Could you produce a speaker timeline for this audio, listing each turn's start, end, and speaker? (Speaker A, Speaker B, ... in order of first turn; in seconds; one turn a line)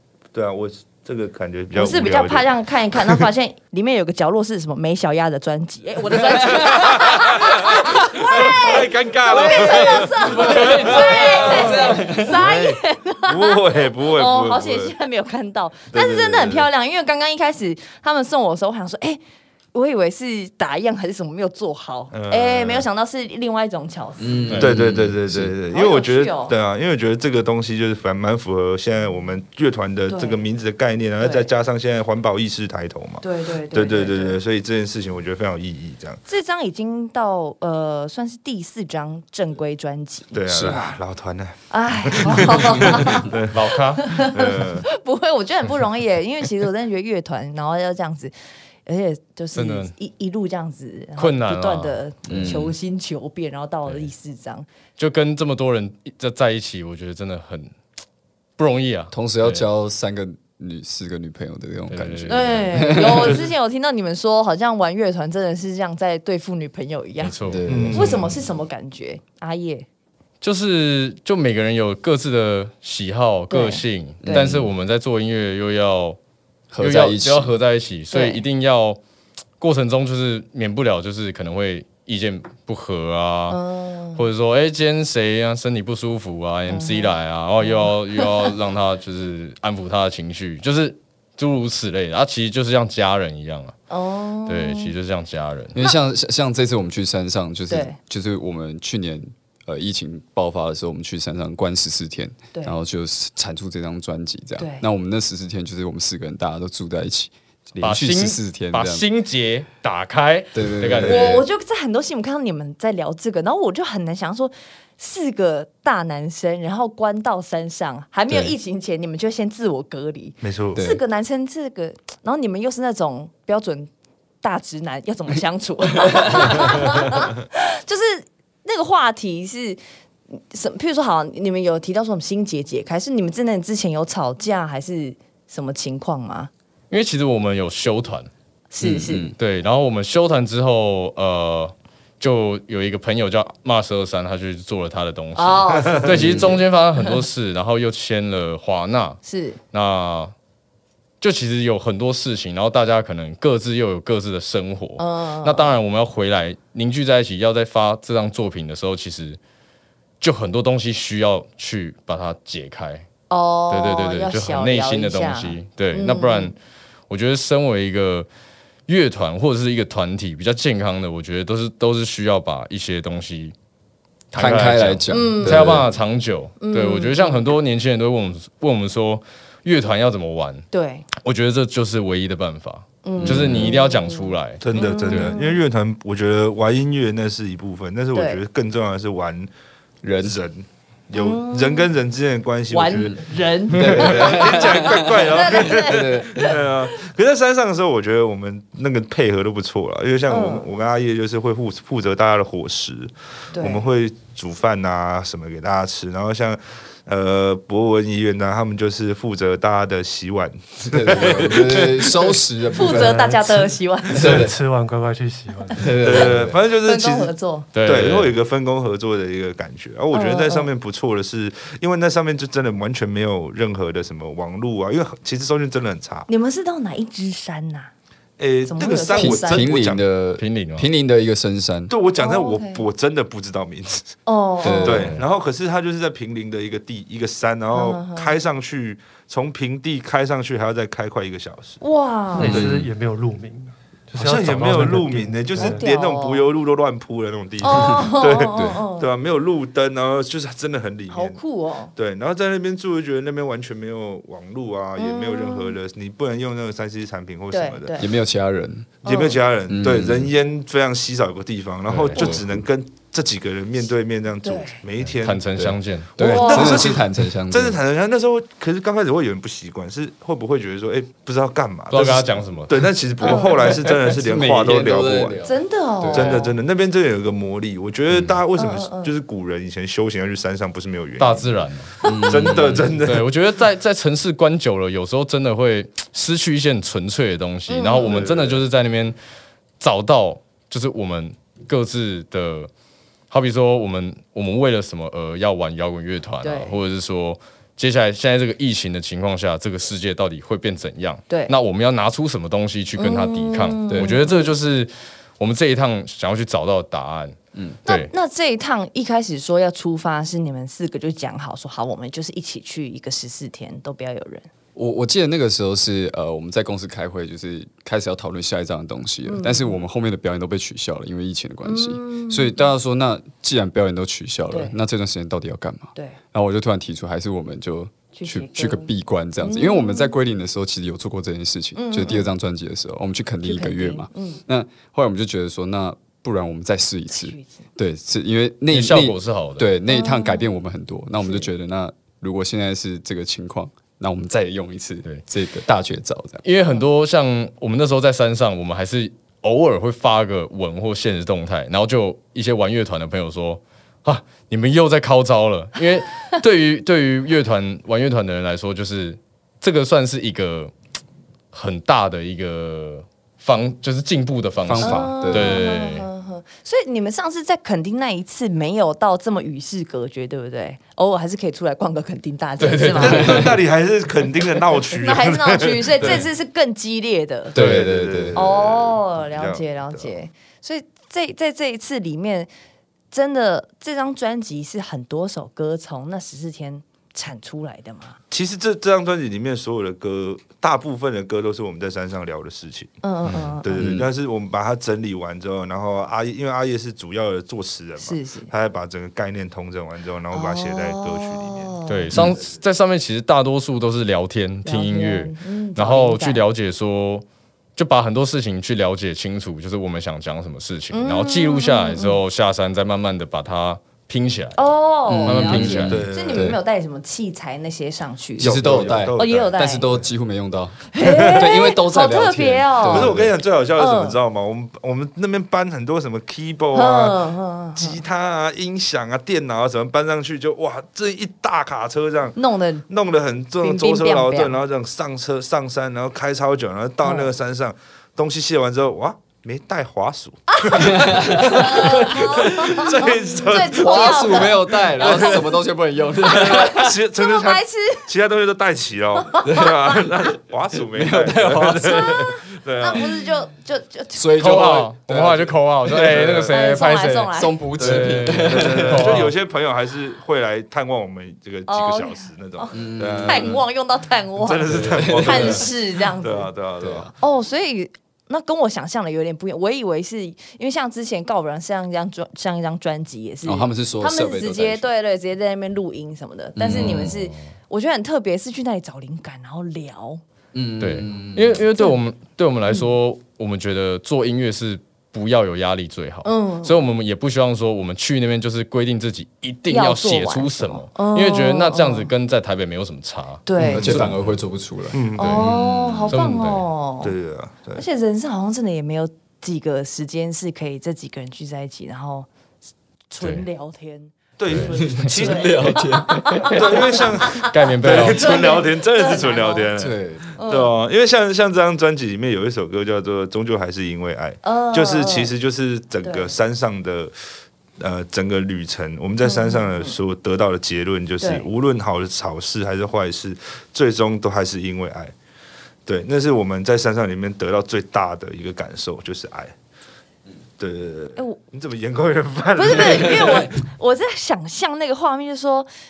Speaker A: 0.3-3.2
Speaker B: 1.7-19.2
Speaker A: 6.5-14.9
Speaker C: 10.3-12.4
Speaker D: 10.3-11.8
Speaker A: 15.9-16.7
Speaker B: 19.7-24.6
Speaker A: 22.1-22.9
Speaker C: 24.2-25.5
Speaker A: 24.5-36.2
Speaker B: 25.7-26.5
Speaker B: 30.1-30.4
Speaker B: 31.2-31.5
Speaker B: 33.2-34.4
Speaker B: 36.3-41.0
Speaker A: 40.3-43.6
Speaker C: 40.5-40.8
Speaker B: 41.7-43.4
Speaker D: 43.5-44.0
Speaker B: 44.0-48.3
Speaker A: 44.1-44.9
Speaker B: 48.9-54.7
Speaker D: 49.5-49.9
Speaker D: 51.2-52.5
Speaker C: 52.3-52.8
Speaker D: 53.9-54.1
Speaker D: 55.0-57.7
Speaker D: 58.6-59.6
Speaker C: 59.1-63.5
Speaker D: 61.9-62.6
Speaker B: 62.3-69.8
Speaker A: 63.0-63.5
Speaker D: 67.2-67.7
Speaker C: 67.4-68.1
Speaker A: 67.7-68.4
Speaker D: 70.4-76.2
Speaker B: 73.5-74.5
Speaker C: 74.2-74.7
Speaker C: 76.7-77.5
Speaker D: 76.8-79.0
Speaker B: 78.1-78.4
Speaker D: 79.6-83.6
Speaker B: 83.5-84.3
Speaker D: 84.2-93.7
Speaker B: 86.7-88.5
Speaker B: 93.9-94.9
Speaker D: 94.5-95.8
Speaker C: 95.7-109.1
Speaker B: 97.7-98.0
Speaker B: 104.6-104.8
Speaker D: 107.8-111.4
Speaker C: 110.5-111.5
Speaker B: 111.0-123.9
Speaker C: 118.3-118.5
Speaker A: 120.4-120.8
Speaker C: 120.7-121.0
Speaker B: 124.4-129.8
Speaker B: 130.3-136.5
Speaker D: 136.9-138.3
Speaker B: 138.7-139.3
Speaker C: 138.8-139.3
Speaker D: 139.4-149.2
Speaker B: 145.3-146.2
Speaker A: 145.7-146.4
Speaker C: 146.1-146.6
Speaker B: 146.9-147.2
Speaker B: 149.2-149.6
Speaker D: 149.7-150.3
Speaker D: 151.2-159.4
Speaker B: 155.0-155.8
Speaker D: 160.2-163.1
Speaker B: 163.3-166.5
Speaker D: 163.7-166.6
Speaker D: 167.1-168.3
Speaker D: 168.9-173.5
Speaker D: 174.3-180.6
Speaker C: 174.3-175.9
Speaker B: 175.1-175.8
Speaker B: 176.6-177.5
Speaker B: 180.7-181.1
Speaker D: 181.2-185.3
Speaker B: 183.0-185.6
Speaker C: 183.2-183.8
Speaker A: 184.6-189.5
Speaker B: 188.1-188.4
Speaker C: 190.0-190.4
Speaker A: 190.2-212.3
Speaker B: 191.1-191.9
Speaker B: 192.7-196.5
Speaker C: 193.7-196.6
Speaker B: 200.3-200.7
Speaker B: 203.5-203.9
Speaker C: 210.8-213.3
Speaker B: 212.7-214.4
Speaker E: 212.8-215.9
Speaker C: 214.1-214.6
Speaker C: 215.8-216.5
Speaker A: 216.0-217.3
Speaker B: 216.8-217.7
Speaker D: 217.7-218.3
Speaker A: 217.8-226.3
Speaker B: 220.1-220.7
Speaker B: 226.3-227.9
Speaker A: 228.4-230.0
Speaker B: 228.6-229.7
Speaker C: 229.1-231.9
Speaker D: 230.4-230.9
Speaker A: 231.9-234.1
Speaker B: 232.2-232.8
Speaker B: 234.2-235.1
Speaker C: 234.6-235.2
Speaker A: 234.8-241.8
Speaker D: 234.9-235.2
Speaker B: 237.7-238.3
Speaker B: 241.8-242.6
Speaker E: 242.3-245.8
Speaker A: 242.4-242.8
Speaker C: 242.4-242.8
Speaker A: 244.2-251.4
Speaker B: 245.6-246.5
Speaker B: 247.6-249.1
Speaker C: 247.7-248.8
Speaker B: 251.1-251.9
Speaker A: 251.9-258.0
Speaker B: 254.9-255.8
Speaker B: 257.5-258.1
Speaker C: 258.0-258.9
Speaker A: 259.0-265.4
Speaker B: 259.0-259.4
Speaker C: 259.7-260.3
Speaker D: 261.9-262.3
Speaker C: 262.2-262.4
Speaker B: 264.4-264.8
Speaker D: 265.2-266.1
Speaker C: 265.5-267.8
Speaker B: 266.2-266.9
Speaker A: 266.2-275.4
Speaker D: 271.9-272.9
Speaker B: 273.2-273.8
Speaker C: 273.6-276.5
Speaker B: 275.4-276.5
Speaker A: 276.1-281.5
Speaker B: 278.5-279.1
Speaker D: 281.2-281.9
Speaker C: 282.0-282.9
Speaker A: 282.1-283.2
Speaker D: 282.5-289.2
Speaker B: 287.7-288.2
Speaker A: 287.9-288.6
Speaker D: 289.8-292.7
Speaker D: 293.3-308.1
Speaker B: 296.4-296.8
Speaker B: 301.3-301.5
Speaker B: 302.9-304.5
Speaker C: 303.9-304.1
Speaker C: 307.5-307.8
Speaker B: 307.9-314.5
Speaker C: 314.7-346.4
Speaker B: 319.2-319.8
Speaker B: 321.6-322.7
Speaker B: 324.5-324.7
Speaker B: 328.1-330.1
Speaker B: 331.7-332.3
Speaker B: 333.4-334.4
Speaker B: 337.1-337.6
Speaker D: 338.7-339.7
Speaker B: 339.9-340.5
Speaker B: 341.2-341.5
Speaker D: 346.4-360.7
Speaker D: 361.5-366.1
Speaker C: 364.6-365.6
Speaker B: 364.8-373.6
Speaker D: 372.6-373.1
Speaker A: 372.9-376.3
Speaker B: 374.9-377.6
Speaker C: 377.5-378.4
Speaker A: 377.6-380.1
Speaker B: 378.3-382.5
Speaker B: 383.1-388.2
Speaker A: 388.3-392.9
Speaker B: 393.0-393.8
Speaker C: 393.3-394.1
Speaker A: 393.6-402.3
Speaker B: 398.0-398.5
Speaker B: 400.3-402.1
Speaker D: 401.9-407.2
Speaker C: 402.1-402.4
Speaker B: 404.6-406.4
Speaker D: 407.8-414.6
Speaker B: 410.9-412.2
Speaker B: 414.5-418.5
Speaker C: 415.1-416.6
Speaker D: 415.2-416.0
Speaker A: 415.9-416.5
Speaker C: 418.4-423.4
Speaker A: 418.4-420.1
Speaker B: 419.1-419.9
Speaker B: 420.9-423.2
Speaker A: 421.0-421.4
Speaker A: 422.9-427.2
Speaker B: 423.8-424.2
Speaker B: 426.7-428.0
Speaker A: 427.8-445.5
Speaker B: 432.4-432.9
Speaker B: 433.6-434.6
Speaker B: 437.0-437.3
Speaker B: 440.5-445.6
Speaker C: 441.1-441.4
Speaker C: 443.7-446.9
Speaker B: 446.2-448.1
Speaker A: 446.2-453.2
Speaker B: 449.2-450.1
Speaker C: 450.8-452.1
Speaker B: 451.9-454.7
Speaker C: 454.1-454.9
Speaker D: 454.4-459.3
Speaker A: 454.4-456.5
Speaker C: 455.9-456.3
Speaker B: 456.5-457.6
Speaker C: 457.3-459.3
Speaker A: 457.8-463.6
Speaker B: 461.7-466.5
Speaker C: 462.7-463.6
Speaker A: 464.4-467.1
Speaker C: 464.7-465.6
Speaker C: 466.8-467.1
Speaker B: 467.2-480.2
Speaker C: 473.4-474.9
Speaker C: 476.6-477.1
Speaker D: 476.6-477.5
Speaker C: 480.5-481.6
Speaker D: 480.8-493.4
Speaker B: 486.2-486.9
Speaker B: 489.7-492.1
Speaker B: 493.4-494.1
Speaker C: 493.6-495.0
Speaker A: 493.6-494.1
Speaker A: 494.9-496.2
Speaker D: 495.2-496.6
Speaker B: 495.2-497.1
Speaker A: 497.0-497.8
Speaker B: 497.8-502.3
Speaker B: 503.1-509.7
Speaker A: 504.4-505.8
Speaker C: 504.7-507.0
Speaker A: 506.4-517.1
Speaker D: 507.4-508.3
Speaker C: 509.8-510.2
Speaker B: 510.4-510.7
Speaker B: 514.4-515.3
Speaker B: 516.0-516.3
Speaker A: 517.8-525.1
Speaker B: 519.2-520.0
Speaker B: 521.2-521.5
Speaker A: 525.9-529.5
Speaker A: 530.6-533.5
Speaker B: 532.5-535.7